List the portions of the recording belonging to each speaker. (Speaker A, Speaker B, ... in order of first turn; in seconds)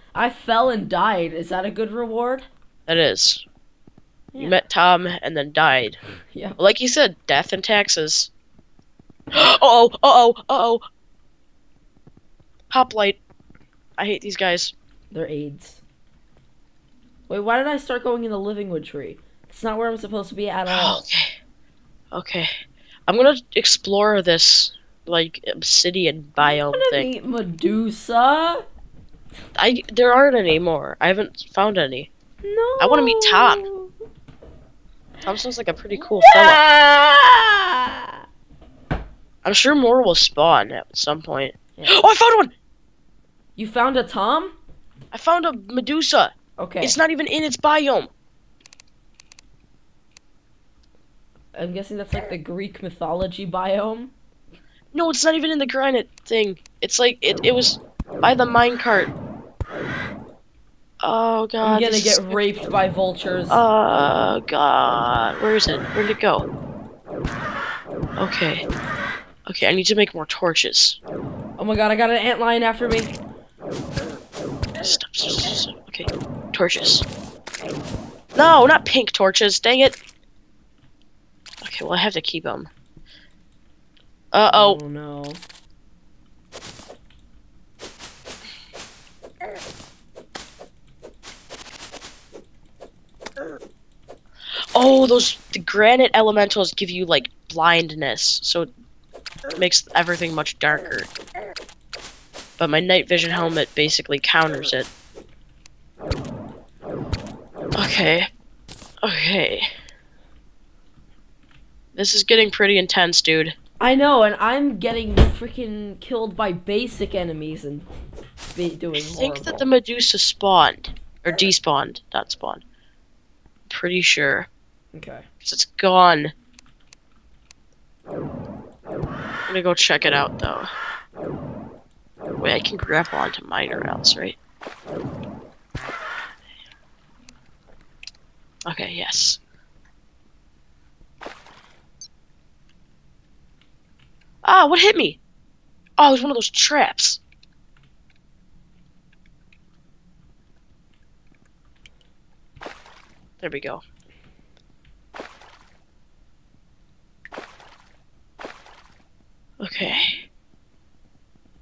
Speaker A: 0.1-2.5, 4.3-4.6, 6.3-6.6, 15.1-15.8, 17.3-21.0, 26.7-28.6, 32.4-33.9, 35.9-38.1, 41.8-42.0, 43.6-44.6, 46.6-47.0, 51.5-54.1, 61.6-63.6, 71.6-73.2, 84.5-85.4, 113.8-117.9, 118.5-119.7, 124.9-125.3
Speaker B: 2.9-3.4, 4.4-6.0, 6.6-8.3, 9.3-10.8, 12.7-13.2, 14.0-14.7, 20.7-21.4, 22.1-22.5, 23.1-27.1, 29.6-32.1, 32.8-33.7, 35.2-36.6, 39.4-42.5, 45.1-48.1, 54.9-59.1, 61.0-62.4, 63.5-66.5, 68.2-68.7, 69.5-71.0, 74.8-77.1, 78.3-80.0, 81.6-82.7, 84.3-84.8, 94.8-98.7, 99.5-101.1, 102.6-104.9, 107.8-108.3, 109.0-109.7, 111.9-113.5, 118.9-122.6, 123.7-124.5, 125.4-126.3, 129.5-130.7, 132.4-134.4, 138.7-139.4, 144.4-145.2, 146.0-147.2, 153.4-153.8, 159.6-160.2